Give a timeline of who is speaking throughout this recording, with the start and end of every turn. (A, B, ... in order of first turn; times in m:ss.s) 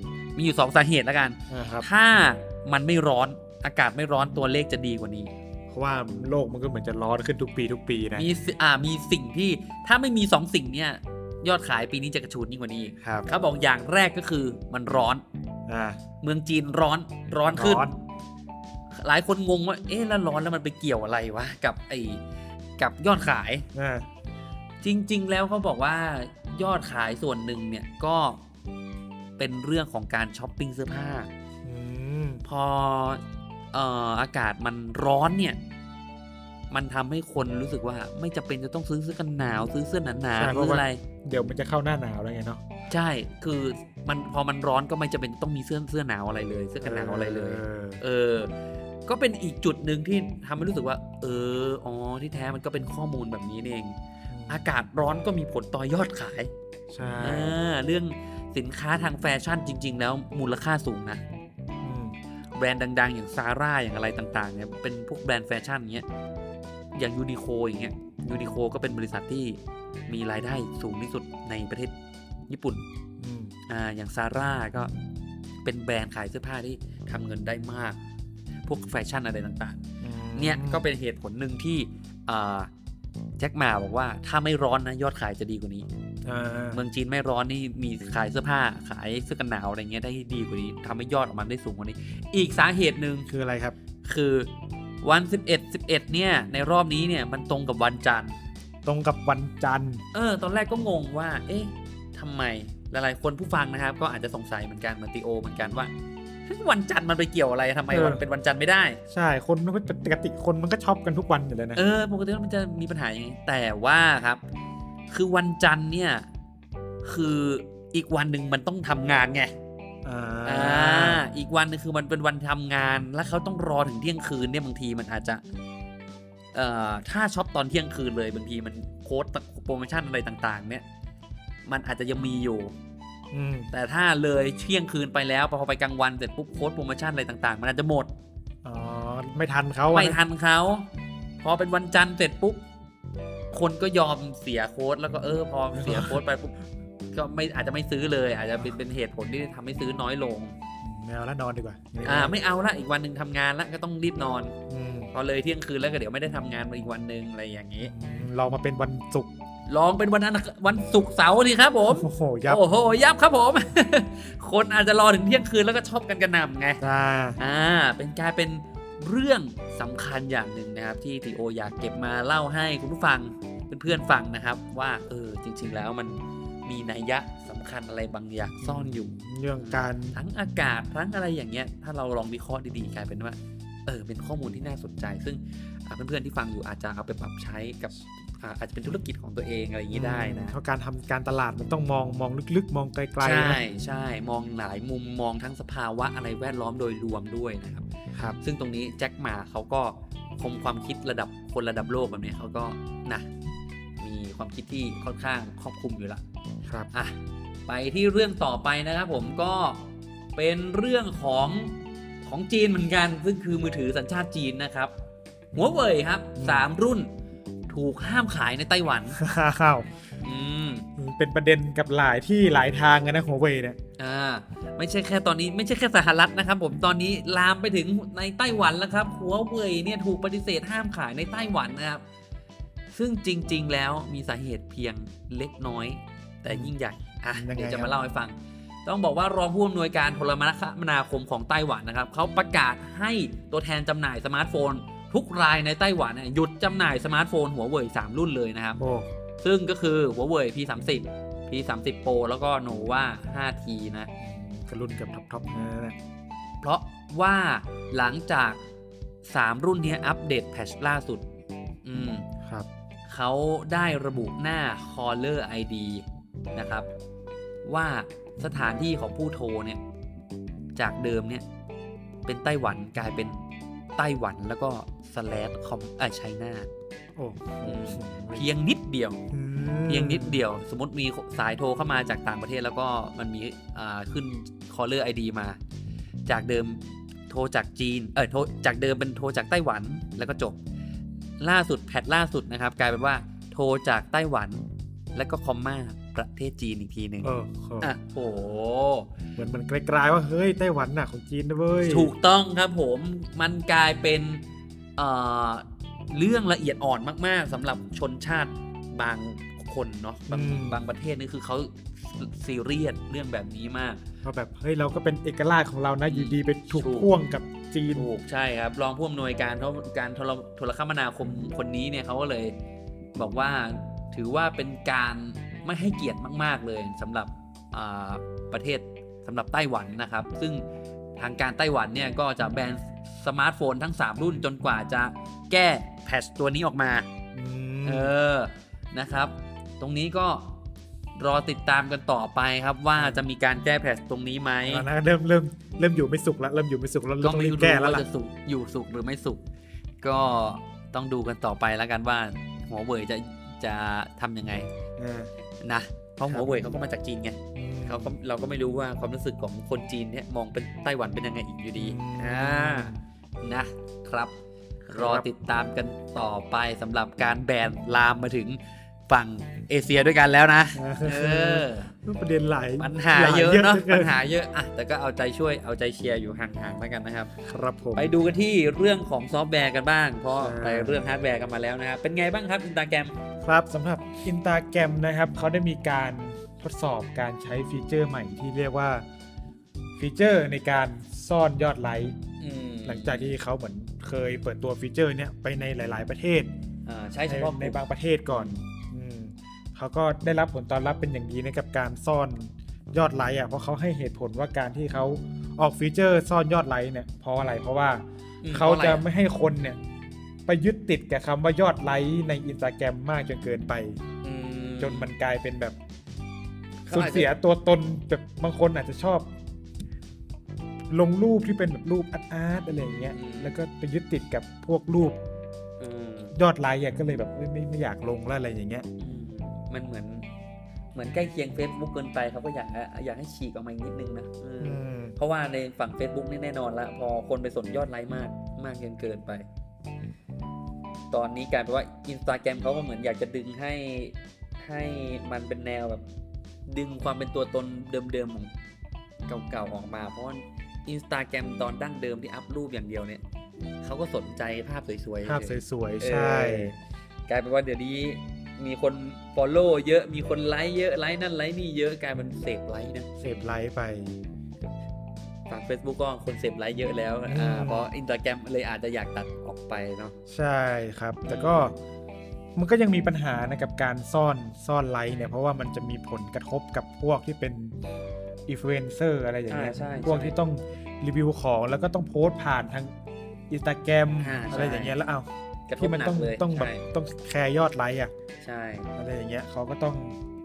0:00.4-0:05.3 A
0:01.5-0:01.9 B
0:05.7-0:08.3 B
0:08.1-0:15.2 A
0:13.0-0:13.3 B
0:15.7-0:16.0 B
0:16.2-0:17.9 A
0:17.5-0:17.9 B
0:19.0-0:22.2 A
0:22.8-0:23.6 A
0:23.7-0:24.0 B
0:24.8-0:28.4 A
0:29.4-0:31.3 A
0:31.6-0:32.4 B
0:32.4-0:33.2 A
0:33.7-0:35.6 A
0:36.7-0:41.0 A
0:40.4-0:42.6 B
0:42.9-0:48.5 A
0:46.8-0:48.0 B
0:49.1-0:54.0 A
0:54.3-0:54.6 B
0:54.5-0:56.5 A
0:56.9-0:57.6 B
0:57.2-1:01.2 A
1:01.8-1:02.1 B
1:02.5-1:06.0 A
1:06.9-1:11.9 A
1:12.5-1:12.8 A
1:13.2-1:13.5 B
1:13.7-1:14.9 A
1:15.6-1:18.0 A
1:18.6-1:19.8 A
1:20.0-1:20.8 B
1:20.4-1:22.7 A
1:23.4-1:25.9 A
1:26.2-1:26.8 B
1:26.7-1:33.3 A
1:33.3-1:33.7 B
1:34.0-1:34.5 A
1:35.0-1:38.3 A
1:38.8-1:40.0 B
1:40.1-1:45.9 A
1:46.4-1:49.0 A
1:47.9-1:48.2 B
1:49.1-1:51.8 B
1:51.7-1:54.4 A
1:55.1-1:56.2 A
1:57.0-1:59.5 A
2:00.0-2:01.2 B
2:00.4-2:05.4 A
2:06.5-2:10.8 A
2:11.6-2:12.7 A
2:13.3-2:13.7 B
2:13.7-2:18.1 A
2:18.6-2:20.2 B
2:19.9-2:20.9 A
2:21.4-2:22.6 A
2:23.5-2:26.6 A
2:25.7-2:26.2 B
2:27.1-2:30.5 A
2:30.8-2:32.4 B
2:32.0-2:34.5 A
2:34.7-2:35.1 B
2:35.1-2:37.9 A
2:37.8-2:39.3 B
2:39.7-2:46.8 A
2:41.9-2:42.6 B
2:46.8-2:47.4 B
2:47.4-3:10.5 A
2:58.6-3:00.2 B
3:09.9-3:13.6 B
3:13.2-3:17.8 A
3:18.4-3:23.3 A
3:24.0-3:26.2 A
3:27.7-3:34.9 A
3:35.5-3:37.1 A
3:36.4-3:36.7 B
3:37.7-3:39.2 A
3:39.1-3:39.9 B
3:40.2-3:40.9 A
3:41.0-3:43.8 B
3:44.0-3:52.0 A
3:52.9-4:08.8 A
3:56.5-3:56.7 B
3:57.3-3:57.9 B
4:08.8-4:09.1 B
4:09.4-4:14.1 A
4:14.2-4:16.0 B
4:16.6-4:18.6 A
4:19.2-4:21.2 A
4:21.8-4:22.2 A
4:23.1-4:26.9 A
4:27.6-4:29.8 A
4:30.8-4:31.4 A
4:32.3-4:33.4 A
4:34.0-4:36.7 A
4:37.2-4:38.5 B
4:37.6-4:39.2 A
4:39.3-4:40.4 B
4:39.8-4:45.6 A
4:46.3-4:50.6 A
4:51.4-4:59.1 A
4:57.2-4:57.9 B
4:59.4-5:02.1 B
5:01.8-5:04.4 A
5:05.0-5:14.0 A
5:10.3-5:10.8 B
5:14.2-5:18.1 B
5:16.1-5:17.1 A
5:17.9-5:22.5 A
5:23.2-5:30.6 A
5:31.2-5:37.1 A
5:37.3-5:38.1 B
5:37.8-5:40.6 A
5:41.2-5:44.8 A
5:43.0-5:43.2 B
5:44.6-5:48.0 B
5:47.2-5:49.4 A
5:50.0-5:54.7 A
5:55.0-5:55.3 B
5:55.6-6:04.3 A
5:57.5-5:58.1 B
6:01.8-6:03.0 B
6:04.9-6:05.2 B
6:04.9-6:11.9 A
6:10.7-6:14.1 B
6:12.8-6:17.3 A
6:17.4-6:18.1 B
6:17.9-6:23.1 A
6:20.3-6:21.0 B
6:23.4-6:29.0 B
6:30.0-6:32.2 B
6:32.4-6:33.4 A
6:32.8-6:36.5 B
6:36.8-6:37.8 A
6:37.3-6:49.8 B
6:38.3-6:38.5 A
6:48.4-6:49.0 A
6:50.5-6:54.0 B
6:54.2-6:55.1 A
6:54.8-6:55.8 B
6:56.9-6:57.3 A
6:56.9-6:59.3 B
7:00.9-7:05.2 B
7:03.1-7:03.6 A
7:05.8-7:06.4 A
7:06.3-7:08.8 B
7:09.0-7:10.3 A
7:10.9-7:19.4 A
7:14.6-7:15.2 B
7:21.1-7:26.0 A
7:26.7-7:28.5 A
7:29.3-7:33.2 A
7:33.8-7:36.8 A
7:35.2-7:36.7 B
7:37.3-7:43.4 A
7:43.2-7:44.3 B
7:45.5-7:50.1 A
7:47.3-7:47.9 B
7:50.3-7:51.7 B
7:51.3-7:51.7 A
7:52.6-7:57.7 B
7:58.5-8:02.9 B
7:59.5-8:00.4 A
8:03.5-8:05.3 B
8:04.2-8:04.9 A
8:05.7-8:06.8 A
8:05.8-8:08.1 B
8:08.4-8:08.9 A
8:09.0-8:10.2 B